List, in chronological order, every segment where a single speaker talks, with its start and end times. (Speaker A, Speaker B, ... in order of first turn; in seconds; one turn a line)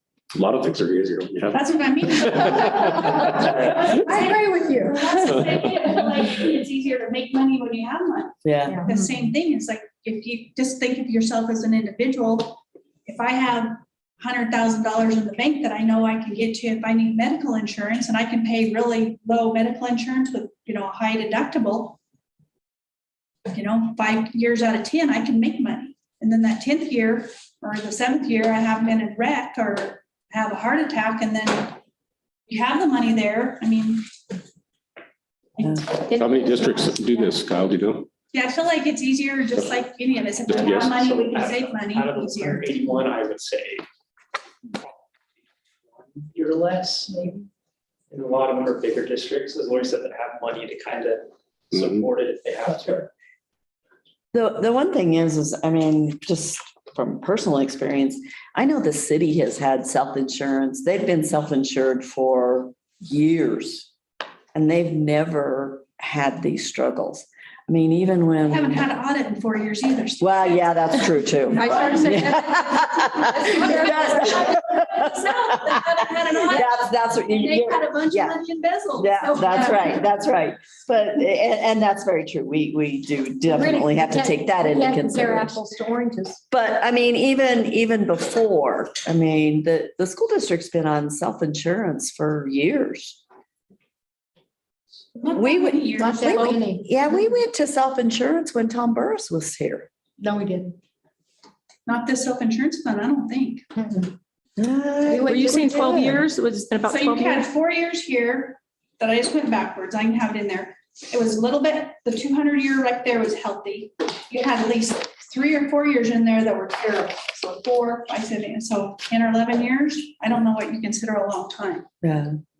Speaker A: 0.3-1.6
Speaker B: 1.5-22.0
Speaker A: 2.2-3.6
Speaker C: 3.1-5.0
Speaker D: 8.4-8.8
Speaker B: 23.5-31.8
Speaker B: 32.5-34.1
Speaker B: 35.6-36.1
Speaker C: 36.1-37.0
Speaker A: 36.1-38.1
Speaker B: 38.3-42.7
Speaker A: 40.5-41.0
Speaker E: 40.9-43.8
Speaker E: 46.3-47.5
Speaker E: 48.1-53.1
Speaker A: 51.7-52.0
Speaker D: 54.3-63.9
Speaker D: 64.5-68.8
Speaker B: 68.5-80.0
Speaker D: 70.2-75.3
Speaker C: 71.6-74.3
Speaker D: 76.5-78.4
Speaker D: 79.0-85.6
Speaker C: 83.5-86.4
Speaker D: 86.5-93.2
Speaker B: 95.2-96.6
Speaker D: 95.3-99.9
Speaker C: 96.0-97.0
Speaker C: 100.2-100.8
Speaker B: 101.9-103.7
Speaker C: 103.8-104.1
Speaker D: 104.6-106.1
Speaker C: 105.1-106.2
Speaker F: 105.3-107.5
Speaker B: 106.8-121.9
Speaker D: 122.0-122.4